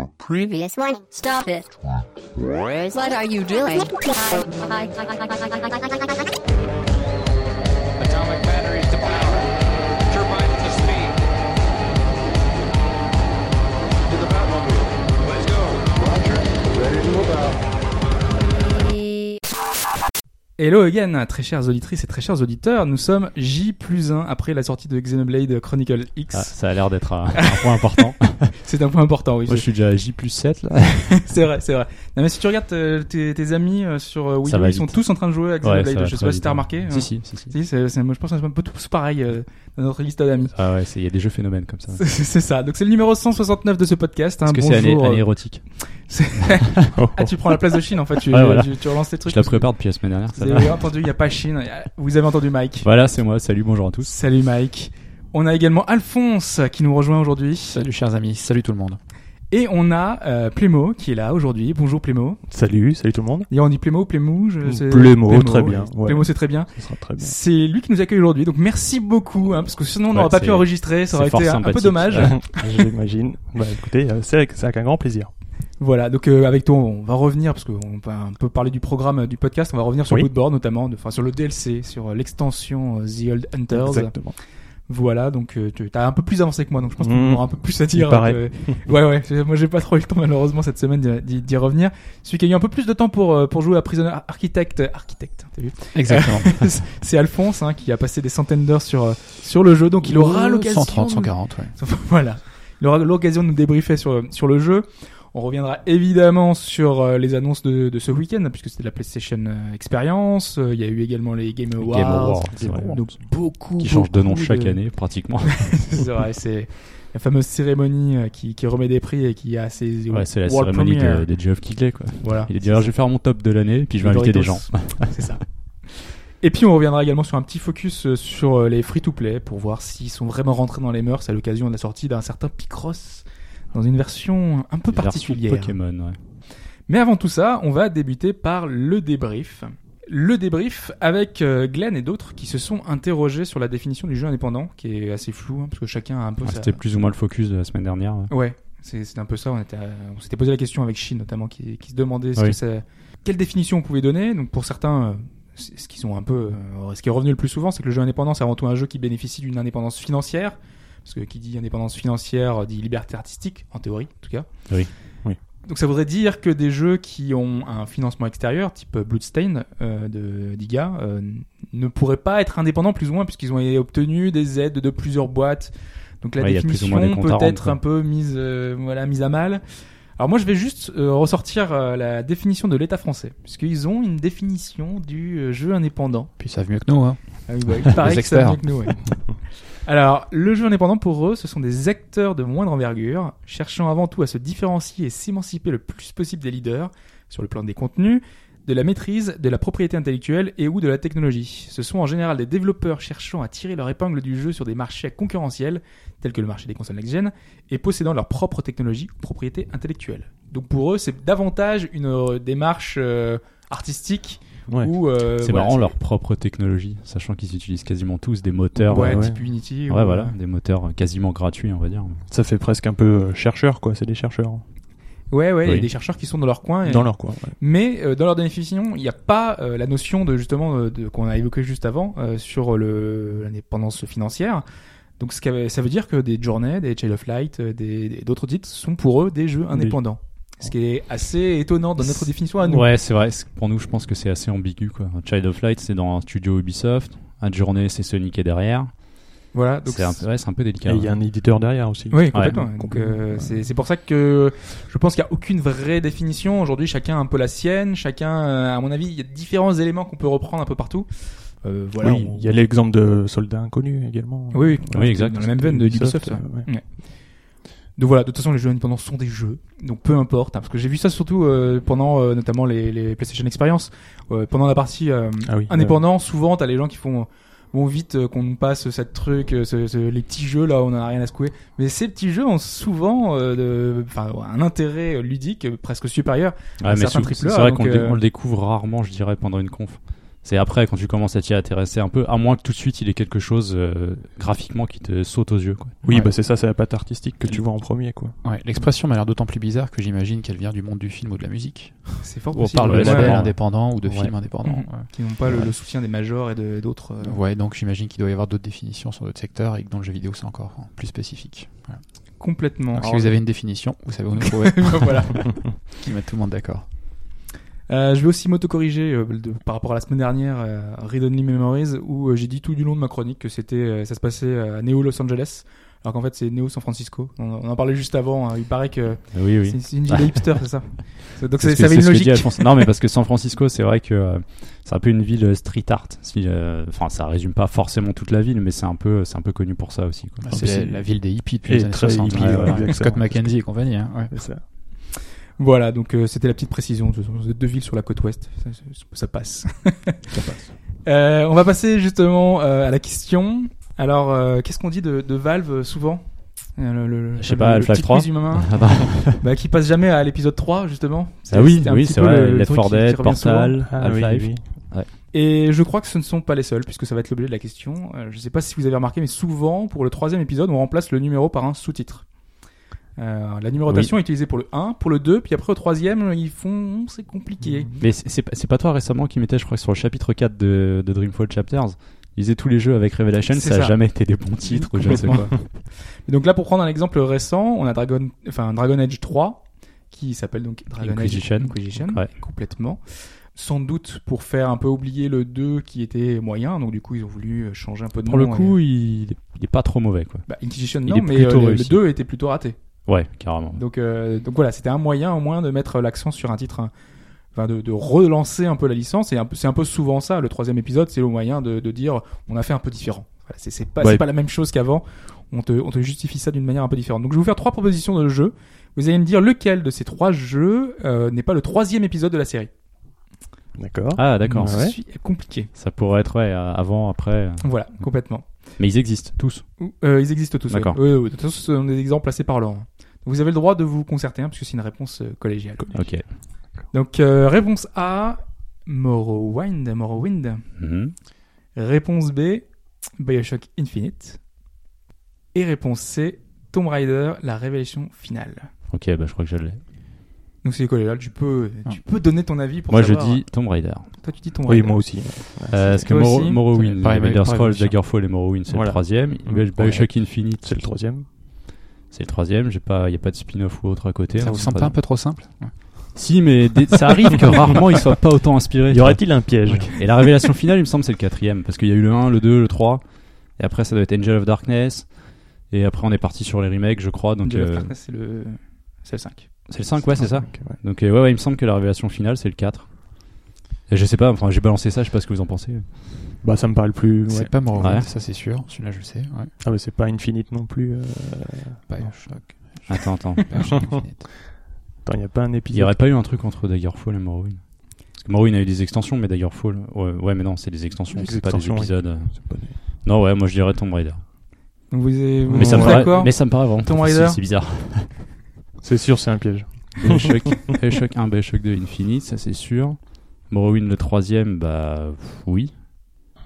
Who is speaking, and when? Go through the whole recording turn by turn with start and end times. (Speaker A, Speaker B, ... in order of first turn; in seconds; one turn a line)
Speaker A: 0.2-1.8
Speaker A: 2.8-6.3
Speaker B: 8.0-11.2
Speaker B: 14.0-17.6
Speaker A: 18.5-19.4
Speaker C: 20.6-26.6
Speaker D: 26.3-28.6
Speaker C: 27.4-29.7
Speaker D: 29.5-31.2
Speaker C: 31.2-40.5
Speaker D: 34.5-35.0
Speaker D: 35.6-37.5
Speaker D: 40.5-42.0
Speaker C: 42.0-49.8
Speaker D: 44.5-45.7
Speaker E: 47.0-47.3
Speaker D: 48.3-50.9
Speaker C: 50.3-52.9
Speaker D: 52.8-54.1
Speaker C: 54.0-57.8
Speaker F: 57.7-59.0
Speaker C: 59.5-62.4
Speaker E: 62.5-63.5
Speaker C: 63.5-72.8
Speaker E: 64.7-67.3
Speaker D: 70.1-72.5
Speaker E: 72.1-75.3
Speaker C: 75.8-84.3
Speaker E: 83.7-84.4
Speaker C: 84.9-114.8
Speaker E: 87.0-88.9
Speaker F: 95.9-96.7
Speaker F: 100.0-101.7
Speaker D: 111.8-113.2
Speaker F: 112.6-113.0
Speaker D: 113.7-115.9
Speaker C: 115.5-121.3
Speaker D: 120.1-125.2
Speaker C: 122.2-122.9
Speaker C: 124.0-135.8
Speaker D: 134.9-136.2
Speaker C: 136.9-146.8
Speaker D: 146.4-148.3
Speaker C: 148.3-164.5
Speaker C: 165.7-179.6
Speaker D: 176.4-177.8
Speaker C: 180.2-186.3
Speaker F: 186.4-188.9
Speaker C: 187.5-216.0
Speaker D: 215.4-222.2
Speaker E: 218.8-219.5
Speaker C: 218.9-220.4
Speaker E: 222.3-224.6
Speaker C: 225.3-234.6
Speaker E: 226.8-227.6
Speaker C: 235.2-242.9
Speaker D: 242.0-249.0
Speaker C: 249.5-250.3
Speaker D: 249.8-251.2
Speaker E: 250.8-253.7
Speaker C: 252.1-262.5
Speaker D: 252.3-252.6
Speaker E: 262.0-266.7
Speaker C: 264.5-267.3
Speaker D: 264.9-265.5
Speaker C: 268.0-288.2
Speaker E: 275.5-276.0
Speaker D: 286.8-296.0
Speaker E: 296.0-298.4
Speaker F: 296.1-296.3
Speaker F: 298.4-305.7
Speaker C: 302.2-303.4
Speaker D: 302.8-303.6
Speaker E: 304.1-304.3
Speaker C: 304.6-307.4
Speaker F: 307.2-312.0
Speaker C: 312.4-313.3
Speaker F: 312.9-316.9
Speaker C: 314.4-315.7
Speaker C: 317.9-332.8
Speaker D: 329.3-330.5
Speaker D: 331.6-340.6
Speaker F: 340.4-344.4
Speaker E: 340.5-341.1
Speaker E: 341.7-343.7
Speaker D: 342.3-342.8
Speaker E: 344.3-344.6
Speaker C: 345.1-350.3
Speaker E: 350.3-350.7
Speaker C: 351.1-363.8
Speaker D: 357.4-359.4
Speaker D: 361.5-365.1
Speaker E: 363.9-364.6
Speaker C: 365.3-372.3
Speaker C: 373.2-378.0
Speaker E: 377.6-377.9
Speaker D: 378.0-385.6
Speaker C: 383.5-398.8
Speaker D: 391.0-392.3
Speaker D: 398.3-400.5
Speaker C: 400.5-402.8
Speaker D: 401.1-402.0
Speaker D: 403.1-403.8
Speaker C: 403.7-406.9
Speaker C: 407.5-422.7
Speaker E: 423.8-425.0
Speaker D: 424.1-425.0
Speaker C: 424.4-425.7
Speaker D: 425.7-429.7
Speaker C: 427.6-428.5
Speaker C: 429.8-440.7
Speaker D: 430.7-431.0
Speaker D: 435.9-436.3
Speaker D: 440.8-441.1
Speaker C: 441.7-442.7
Speaker C: 443.2-444.4
Speaker C: 445.5-448.7
Speaker D: 448.9-449.8
Speaker C: 450.6-455.4
Speaker D: 452.9-454.1
Speaker E: 454.7-456.1
Speaker D: 455.7-460.9
Speaker C: 456.1-456.6
Speaker F: 457.0-458.0
Speaker E: 458.7-461.3
Speaker D: 462.1-464.9
Speaker F: 464.4-465.7
Speaker E: 464.4-464.7
Speaker D: 466.1-473.0
Speaker E: 468.9-470.2
Speaker D: 473.6-477.9
Speaker C: 477.4-479.5
Speaker D: 479.7-482.9
Speaker E: 480.0-480.8
Speaker D: 483.9-486.2
Speaker E: 486.4-488.0
Speaker F: 487.3-489.5
Speaker D: 487.8-488.1
Speaker E: 489.6-492.1
Speaker F: 491.9-494.3
Speaker D: 492.9-493.9
Speaker E: 493.7-494.0
Speaker E: 494.5-495.9
Speaker D: 495.7-504.2
Speaker E: 501.1-502.8
Speaker C: 504.9-507.4
Speaker E: 505.5-506.3
Speaker D: 505.6-508.2
Speaker E: 508.8-510.6
Speaker D: 510.0-515.7